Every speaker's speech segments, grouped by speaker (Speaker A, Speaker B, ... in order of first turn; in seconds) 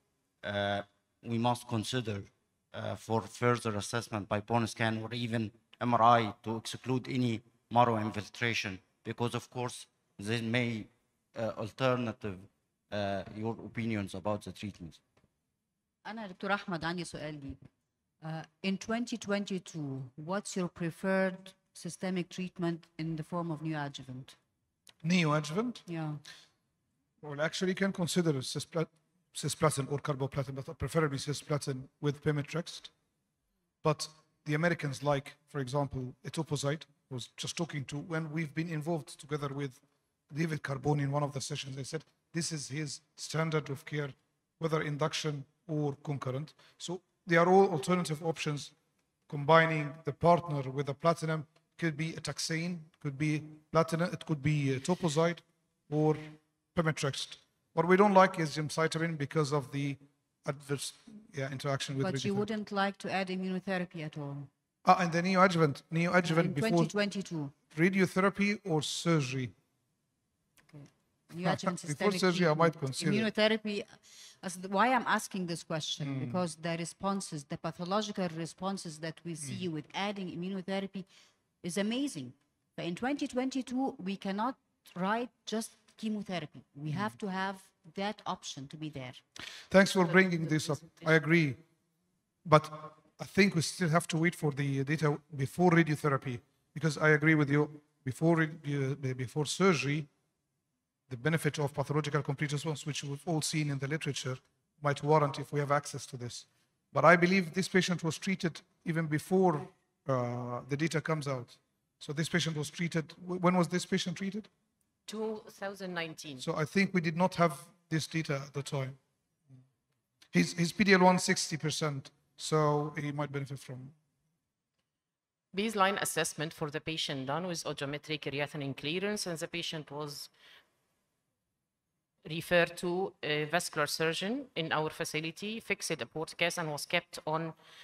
Speaker A: 0.4-15.0
Speaker B: 16.0-17.6, 18.2-24.4, 25.9-26.2, 62.0-64.5, 66.2-67.5, 70.7-81.1, 81.6-89.2
Speaker C: 25.0-25.8, 27.2-32.9, 33.8-48.7, 49.3-62.5, 64.8-66.9, 67.7-69.5, 71.3-73.3, 76.0-76.4, 79.4-79.7, 86.9-87.2, 89.6-91.6, 92.4-100.1, 101.1-114.5, 116.4-119.0, 120.3-124.0
Speaker D: 89.8-91.2, 115.0-116.4, 125.5-130.3, 132.2-137.6